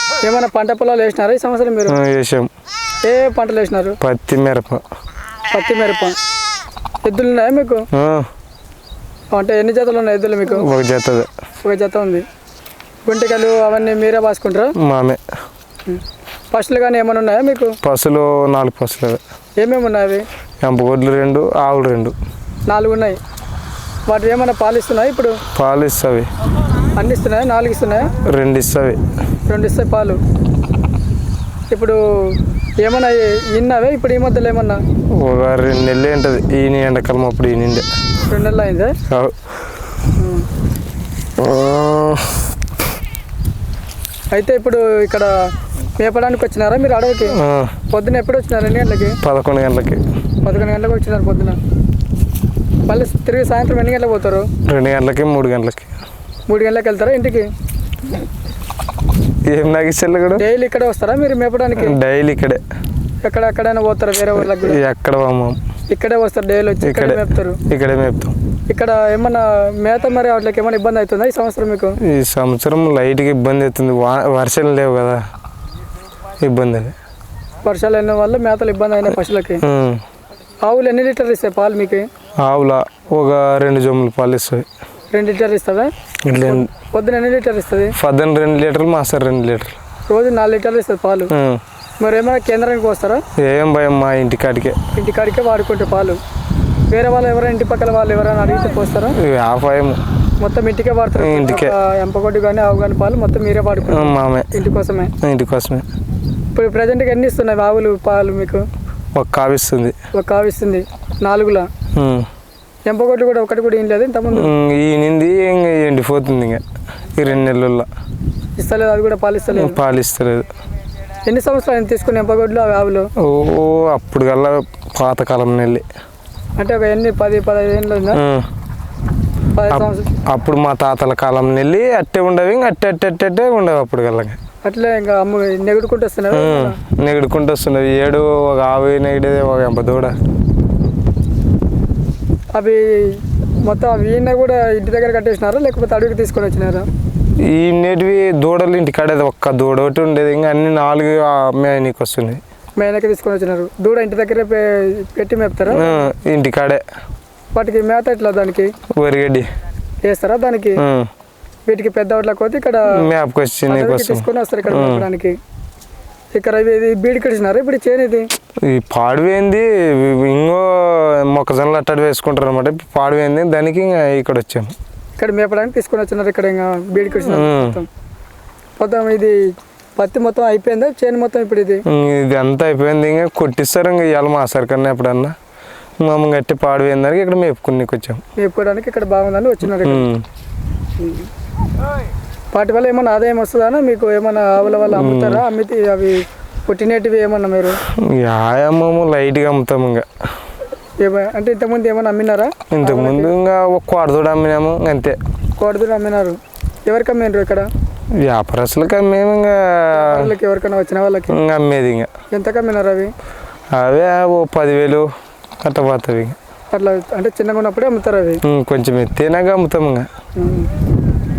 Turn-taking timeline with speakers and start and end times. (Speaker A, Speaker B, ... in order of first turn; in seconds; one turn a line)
Speaker A: 0.2-2.0
Speaker B: 1.9-2.5
Speaker A: 3.0-4.0
Speaker B: 4.0-4.8
Speaker A: 5.5-6.2
Speaker A: 7.0-7.8
Speaker B: 7.9-8.3
Speaker A: 9.3-10.7
Speaker B: 10.5-11.3
Speaker A: 11.6-12.2
Speaker A: 13.1-14.8
Speaker B: 14.8-15.2
Speaker A: 15.9-17.8
Speaker B: 17.8-19.2
Speaker A: 19.6-20.2
Speaker B: 20.6-22.1
Speaker A: 22.7-23.2
Speaker A: 24.1-25.4
Speaker B: 25.6-26.3
Speaker A: 27.0-28.2
Speaker B: 28.2-29.0
Speaker A: 29.5-30.2
Speaker A: 31.7-34.8
Speaker B: 35.2-37.9
Speaker A: 38.2-39.0
Speaker B: 39.1-39.4
Speaker A: 40.2-40.5
Speaker B: 41.4-42.5
Speaker A: 44.3-45.3
Speaker A: 46.0-47.4
Speaker B: 47.3-47.7
Speaker A: 47.9-49.2
Speaker B: 49.2-50.0
Speaker A: 50.4-51.6
Speaker A: 52.9-54.5
Speaker B: 54.7-55.9
Speaker A: 56.5-57.5
Speaker B: 59.5-60.4
Speaker A: 60.4-62.0
Speaker B: 61.8-62.6
Speaker A: 63.2-64.8
Speaker B: 64.4-65.6
Speaker A: 65.9-67.6
Speaker B: 66.8-68.3
Speaker A: 68.7-72.0
Speaker B: 72.0-75.2
Speaker B: 76.4-77.0
Speaker A: 77.6-79.6
Speaker B: 79.6-80.0
Speaker A: 80.6-82.1
Speaker B: 82.4-84.7
Speaker A: 85.1-88.0
Speaker B: 86.3-86.7
Speaker B: 88.0-89.8
Speaker A: 90.1-91.3
Speaker B: 91.3-91.6
Speaker A: 92.0-93.2
Speaker B: 93.4-94.8
Speaker A: 94.9-96.2
Speaker A: 96.9-99.2
Speaker B: 99.2-100.0
Speaker A: 100.4-105.1
Speaker B: 101.2-101.7
Speaker B: 103.8-104.5
Speaker B: 105.2-105.9
Speaker A: 106.5-108.7
Speaker B: 109.2-110.0
Speaker A: 110.1-111.7
Speaker B: 112.0-112.3
Speaker A: 112.9-114.5
Speaker B: 114.3-116.6
Speaker B: 117.2-117.9
Speaker A: 118.6-119.8
Speaker B: 119.5-120.5
Speaker A: 121.2-123.1
Speaker B: 123.2-125.8
Speaker A: 126.6-128.2
Speaker B: 128.1-128.5
Speaker A: 129.6-130.1
Speaker B: 129.7-134.4
Speaker A: 134.7-136.8
Speaker B: 136.3-140.2
Speaker A: 142.5-146.9
Speaker B: 147.4-152.4
Speaker A: 152.8-156.1
Speaker B: 155.7-156.8
Speaker A: 157.5-158.7
Speaker B: 159.0-159.5
Speaker A: 160.0-160.8
Speaker B: 160.8-161.1
Speaker A: 161.7-162.9
Speaker B: 162.9-165.1
Speaker A: 163.7-165.4
Speaker A: 166.3-168.3
Speaker B: 168.6-174.7
Speaker A: 175.2-177.9
Speaker B: 177.1-177.8
Speaker A: 178.8-179.4
Speaker A: 180.0-181.8
Speaker B: 181.9-185.4
Speaker B: 186.0-188.2
Speaker A: 188.4-190.1
Speaker B: 189.8-190.2
Speaker A: 191.0-191.3
Speaker A: 192.5-197.8
Speaker B: 194.9-195.4
Speaker B: 197.8-200.1
Speaker A: 201.0-203.3
Speaker B: 202.7-205.2
Speaker A: 205.6-207.7
Speaker B: 208.2-210.3
Speaker A: 209.9-211.4
Speaker B: 211.3-212.1
Speaker A: 212.3-213.1
Speaker B: 213.7-215.1
Speaker B: 215.6-216.4
Speaker A: 216.7-218.4
Speaker B: 218.4-220.1
Speaker A: 220.4-220.7